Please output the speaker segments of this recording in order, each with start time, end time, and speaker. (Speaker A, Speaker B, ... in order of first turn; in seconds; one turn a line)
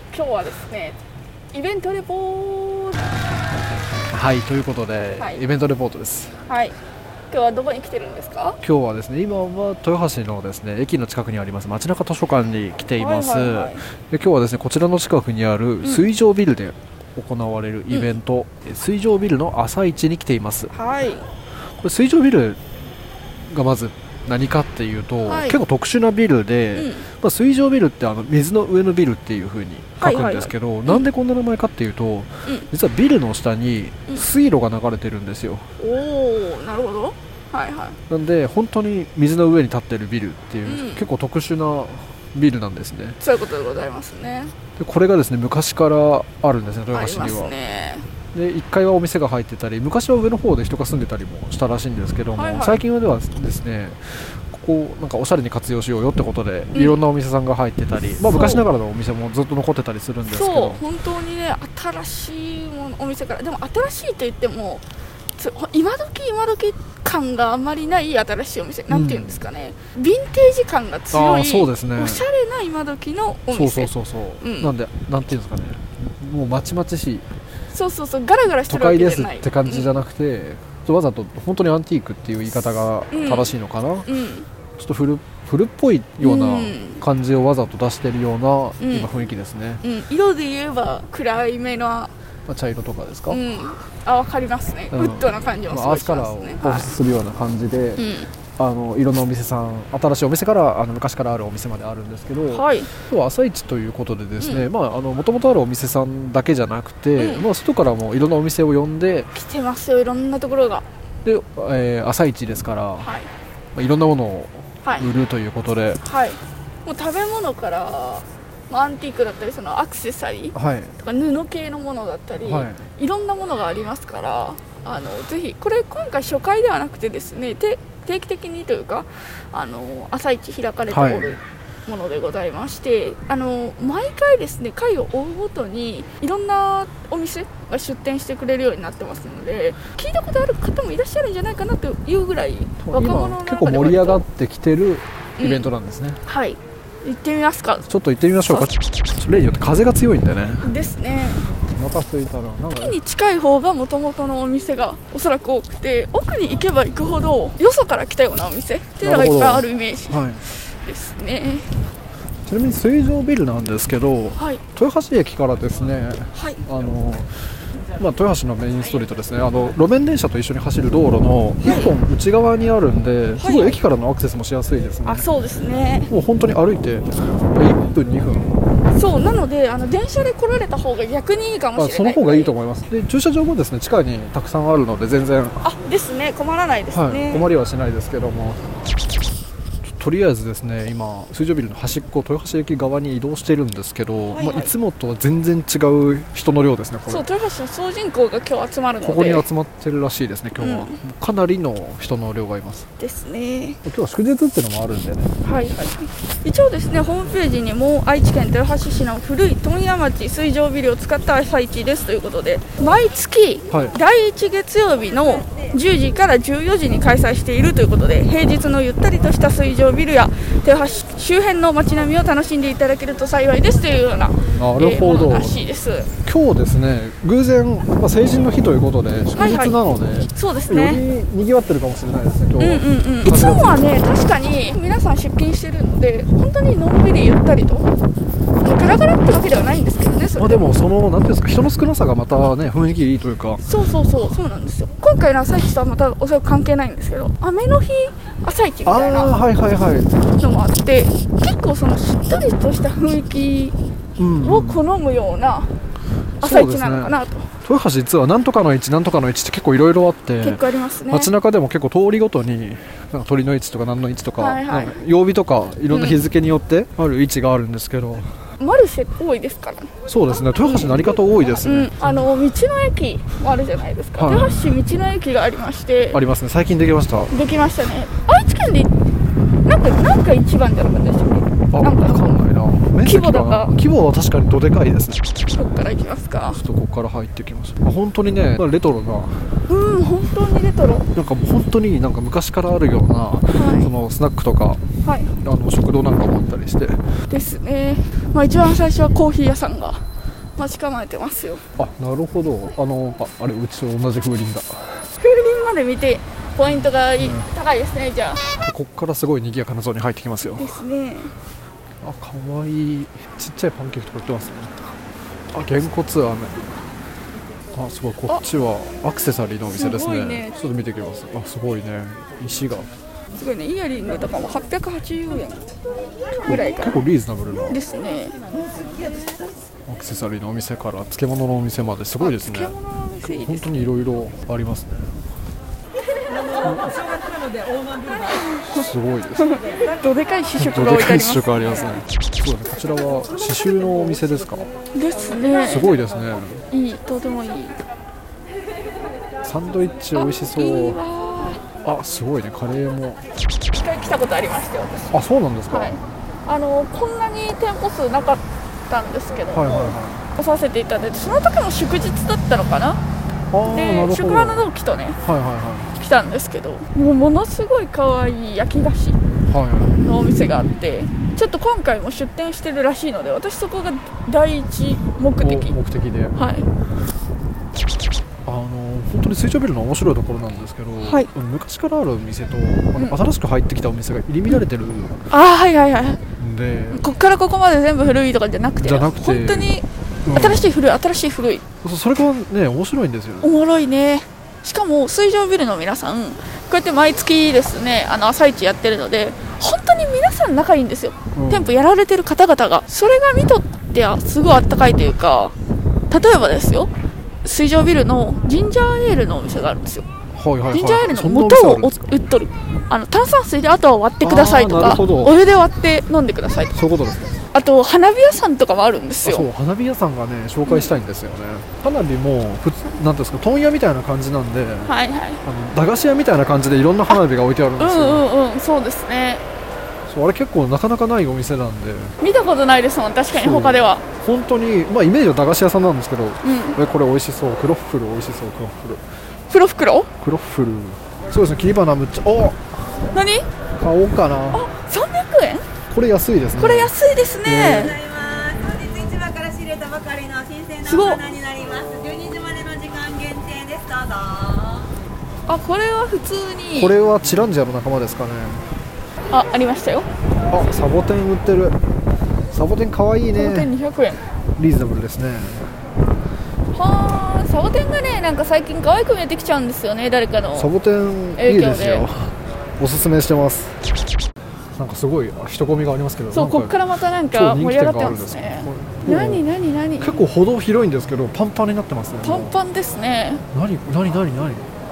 Speaker A: 0.1-1.0
Speaker A: 1.5-3.0
Speaker B: 4.1-6.3
Speaker A: 6.5-6.8
Speaker A: 7.3-8.6
Speaker B: 8.6-20.7
Speaker A: 13.0-13.8
Speaker A: 20.7-21.3
Speaker B: 21.8-22.6
Speaker B: 23.5-35.6
Speaker A: 25.3-25.6
Speaker A: 26.8-27.1
Speaker A: 30.0-31.1
Speaker A: 35.8-38.0
Speaker B: 38.1-43.2
Speaker A: 40.7-41.0
Speaker A: 43.2-44.6
Speaker B: 44.8-47.5
Speaker A: 46.9-48.0
Speaker B: 48.3-60.8
Speaker A: 52.4-52.8
Speaker A: 58.2-58.6
Speaker A: 60.3-64.8
Speaker A: 65.4-74.7
Speaker B: 68.9-69.4
Speaker B: 71.1-72.2
Speaker B: 73.5-77.3
Speaker A: 77.7-80.0
Speaker B: 78.7-84.1
Speaker A: 83.1-83.5
Speaker A: 84.1-84.5
Speaker B: 84.8-89.8
Speaker A: 86.2-87.0
Speaker A: 88.8-89.1
Speaker A: 89.8-92.1
Speaker B: 92.5-93.4
Speaker A: 93.3-96.9
Speaker B: 94.9-98.0
Speaker A: 98.0-98.3
Speaker B: 98.6-109.3
Speaker A: 102.5-102.9
Speaker A: 104.4-104.7
Speaker A: 107.2-107.5
Speaker A: 109.3-110.8
Speaker B: 111.2-113.1
Speaker A: 113.0-113.3
Speaker B: 113.8-116.0
Speaker A: 114.8-115.1
Speaker A: 116.0-144.2
Speaker B: 120.5-121.0
Speaker B: 122.4-122.8
Speaker B: 130.9-131.4
Speaker B: 142.8-146.2
Speaker A: 145.4-145.7
Speaker A: 146.3-147.9
Speaker B: 147.9-150.7
Speaker A: 150.6-151.5
Speaker B: 151.7-153.0
Speaker A: 152.8-161.7
Speaker B: 159.0-160.4
Speaker B: 162.5-167.3
Speaker A: 164.4-164.6
Speaker A: 166.3-166.6
Speaker B: 168.0-175.3
Speaker A: 171.6-171.9
Speaker A: 173.4-173.8
Speaker A: 175.1-176.1
Speaker B: 176.1-178.6
Speaker A: 178.9-182.5
Speaker B: 181.8-185.6
Speaker A: 185.6-187.5
Speaker B: 186.9-188.6
Speaker B: 189.9-197.2
Speaker A: 194.3-194.7
Speaker A: 197.1-199.5
Speaker B: 199.0-202.9
Speaker A: 200.6-201.0
Speaker A: 203.0-203.8
Speaker B: 203.8-205.3
Speaker A: 205.4-226.1
Speaker B: 213.7-214.0
Speaker B: 224.6-225.6
Speaker B: 226.2-233.9
Speaker A: 229.4-229.8
Speaker A: 230.3-231.0
Speaker A: 232.6-237.9
Speaker A: 238.6-240.6
Speaker B: 240.4-243.7
Speaker A: 243.7-249.3
Speaker B: 248.9-250.2
Speaker A: 250.4-253.8
Speaker B: 254.2-254.8
Speaker A: 254.4-255.7
Speaker A: 256.4-257.5
Speaker B: 256.4-268.4
Speaker A: 260.4-261.3
Speaker A: 264.4-265.0
Speaker A: 265.9-266.2
Speaker A: 268.6-269.9
Speaker B: 270.1-272.3
Speaker A: 270.5-276.2
Speaker B: 274.2-274.7
Speaker B: 276.1-277.3
Speaker A: 277.3-278.9
Speaker A: 279.7-282.2
Speaker B: 281.7-285.2
Speaker A: 283.0-283.7
Speaker A: 285.6-286.6
Speaker B: 286.5-289.6
Speaker A: 289.7-291.1
Speaker B: 291.1-294.8
Speaker A: 293.6-293.9
Speaker A: 295.0-295.3
Speaker B: 295.4-297.0
Speaker A: 297.3-300.0
Speaker A: 300.6-301.6
Speaker B: 301.8-305.1
Speaker A: 305.1-308.4
Speaker B: 306.7-307.5
Speaker B: 308.6-310.8
Speaker A: 310.6-311.3
Speaker B: 312.0-314.9
Speaker B: 315.5-316.5
Speaker B: 317.7-322.9
Speaker A: 319.7-320.5
Speaker A: 323.4-325.7
Speaker A: 326.4-327.0
Speaker B: 326.5-327.8
Speaker A: 327.7-328.4
Speaker B: 329.9-335.2
Speaker A: 332.2-333.8
Speaker A: 336.6-336.9
Speaker B: 336.6-336.9
Speaker A: 338.3-338.9
Speaker B: 338.6-339.6
Speaker A: 339.4-341.5
Speaker B: 340.6-344.7
Speaker A: 344.9-346.0
Speaker B: 345.7-346.6
Speaker A: 346.7-347.8
Speaker B: 349.4-351.0
Speaker A: 350.1-351.7
Speaker B: 351.8-353.2
Speaker A: 353.7-355.2
Speaker B: 355.1-356.0
Speaker A: 355.7-363.0
Speaker B: 359.5-360.2
Speaker B: 363.5-364.7
Speaker A: 363.7-365.2
Speaker B: 365.2-365.9
Speaker A: 366.0-369.2
Speaker B: 369.5-370.0
Speaker A: 370.0-375.7
Speaker B: 375.4-376.4
Speaker A: 376.4-376.7
Speaker B: 378.5-385.2
Speaker A: 381.0-381.3
Speaker A: 385.3-386.2
Speaker B: 386.4-387.1
Speaker A: 386.9-391.6
Speaker B: 388.8-389.7
Speaker B: 390.2-390.7
Speaker B: 391.8-393.5
Speaker A: 393.4-405.5
Speaker B: 401.4-401.8
Speaker A: 406.1-406.9
Speaker A: 407.4-410.1
Speaker B: 410.4-411.9
Speaker A: 410.7-416.7
Speaker B: 414.2-415.4
Speaker B: 416.7-417.4
Speaker A: 417.5-419.5
Speaker B: 419.2-424.9
Speaker A: 420.7-420.9
Speaker A: 424.9-425.4
Speaker B: 425.4-428.3
Speaker A: 427.8-429.4
Speaker B: 430.1-432.1
Speaker A: 432.2-434.0
Speaker B: 433.3-439.0
Speaker A: 436.4-436.8
Speaker A: 439.5-440.1
Speaker B: 440.2-442.7
Speaker A: 443.1-443.5
Speaker B: 443.8-444.6
Speaker A: 444.5-445.7
Speaker B: 445.9-446.9
Speaker A: 446.6-447.9
Speaker B: 447.4-447.9
Speaker C: 447.7-454.9
Speaker A: 450.8-451.2
Speaker A: 455.5-456.9
Speaker B: 456.8-458.6
Speaker A: 459.3-460.1
Speaker B: 460.5-461.8
Speaker B: 462.5-463.7
Speaker A: 463.4-464.2
Speaker B: 464.6-465.7
Speaker A: 466.7-470.7
Speaker B: 470.6-473.8
Speaker A: 471.4-472.1
Speaker B: 474.8-476.8
Speaker A: 476.3-480.2
Speaker B: 477.3-479.4
Speaker B: 480.0-482.5
Speaker A: 482.2-483.4
Speaker B: 483.5-484.7